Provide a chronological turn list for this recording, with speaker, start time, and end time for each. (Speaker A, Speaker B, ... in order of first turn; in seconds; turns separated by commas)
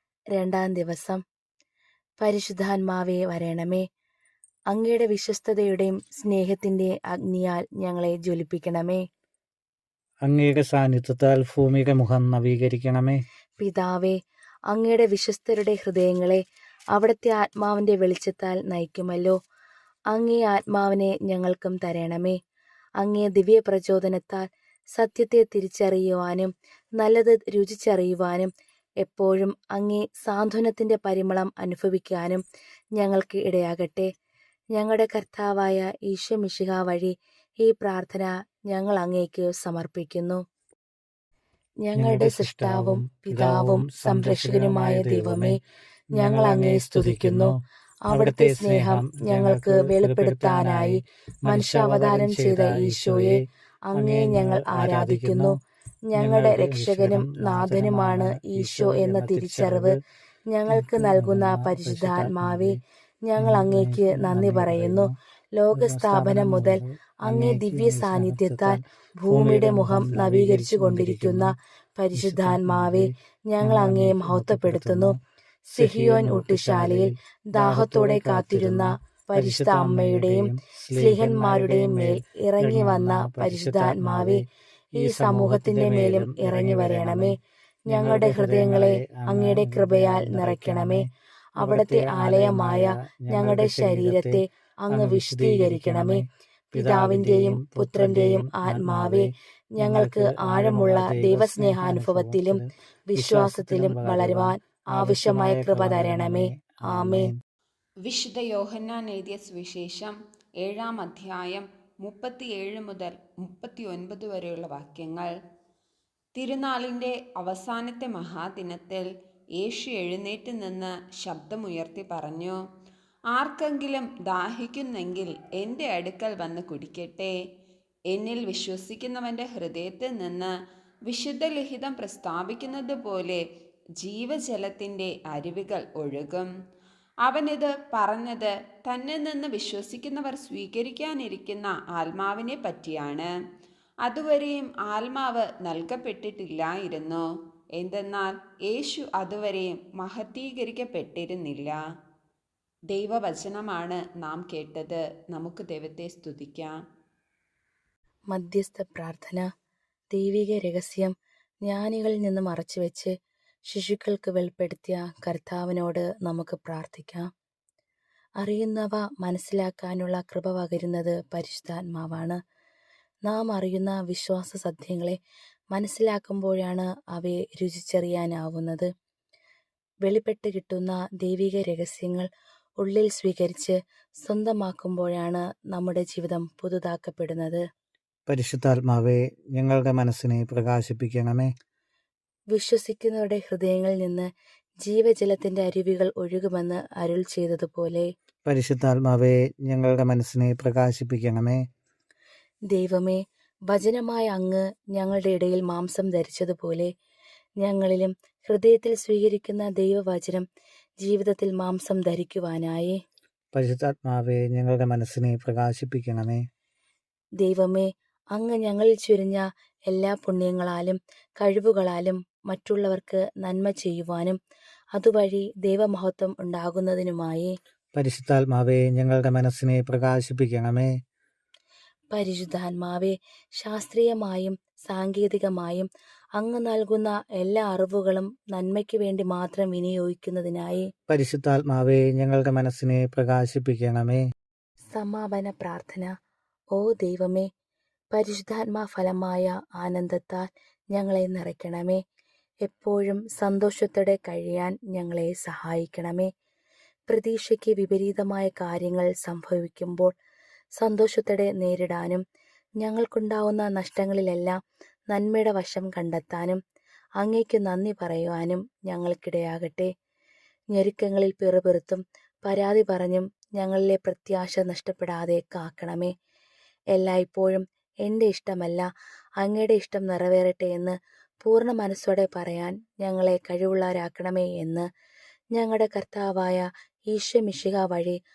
Speaker A: 0.3-1.2, Speaker A: 2.2-3.9, Speaker A: 4.7-9.0, Speaker B: 10.2-13.2, Speaker A: 13.6-14.2, Speaker A: 14.7-16.4, Speaker A: 16.9-19.4, Speaker A: 20.1-22.4, Speaker A: 23.0-24.4, Speaker A: 25.0-28.5, Speaker A: 29.0-32.4, Speaker A: 33.0-34.1, Speaker A: 34.7-40.4, Speaker A: 41.8-45.6, Speaker B: 41.9-45.6, Speaker A: 46.1-47.5, Speaker B: 46.1-47.6, Speaker A: 48.0-55.6, Speaker B: 48.1-53.4, Speaker B: 53.9-55.5, Speaker A: 56.1-60.0, Speaker B: 56.1-60.0, Speaker A: 60.5-75.2, Speaker B: 60.7-62.8, Speaker B: 63.4-65.1, Speaker B: 65.7-71.5, Speaker B: 72.1-75.2, Speaker A: 75.7-84.4, Speaker B: 75.8-84.4, Speaker B: 84.9-87.3, Speaker A: 85.0-87.3, Speaker A: 87.9-107.3, Speaker B: 87.9-91.1, Speaker B: 91.6-107.4, Speaker C: 108.0-115.3, Speaker C: 116.3-119.1, Speaker C: 119.6-122.6, Speaker C: 123.3-127.3, Speaker C: 128.1-130.5, Speaker C: 131.1-133.4, Speaker C: 134.0-136.5, Speaker C: 137.2-143.3, Speaker C: 144.0-147.2, Speaker C: 147.8-151.8, Speaker C: 152.9-156.7, Speaker A: 158.3-159.5, Speaker A: 160.1-161.1, Speaker A: 161.6-163.1, Speaker A: 163.7-167.3, Speaker A: 168.4-172.4, Speaker A: 173.2-175.2, Speaker A: 175.7-178.9, Speaker A: 180.0-182.3, Speaker A: 182.8-187.6, Speaker B: 188.3-191.5, Speaker A: 192.5-194.3, Speaker A: 194.8-198.1, Speaker B: 198.4-201.6, Speaker A: 202.7-206.9, Speaker A: 207.6-210.4, Speaker A: 211.0-213.0, Speaker B: 213.5-216.4, Speaker A: 217.4-224.4, Speaker A: 224.9-227.5, Speaker B: 227.9-230.9, Speaker A: 232.1-240.8, Speaker B: 241.1-244.2, Speaker A: 244.9-246.1, Speaker A: 246.7-247.5, Speaker A: 248.1-252.0, Speaker A: 252.7-256.3, Speaker A: 257.1-260.1, Speaker A: 260.8-262.2, Speaker A: 262.8-264.6, Speaker A: 265.1-266.6, Speaker A: 267.2-269.9, Speaker A: 270.7-276.1, Speaker A: 276.9-278.9, Speaker A: 279.4-284.8, Speaker A: 285.6-288.1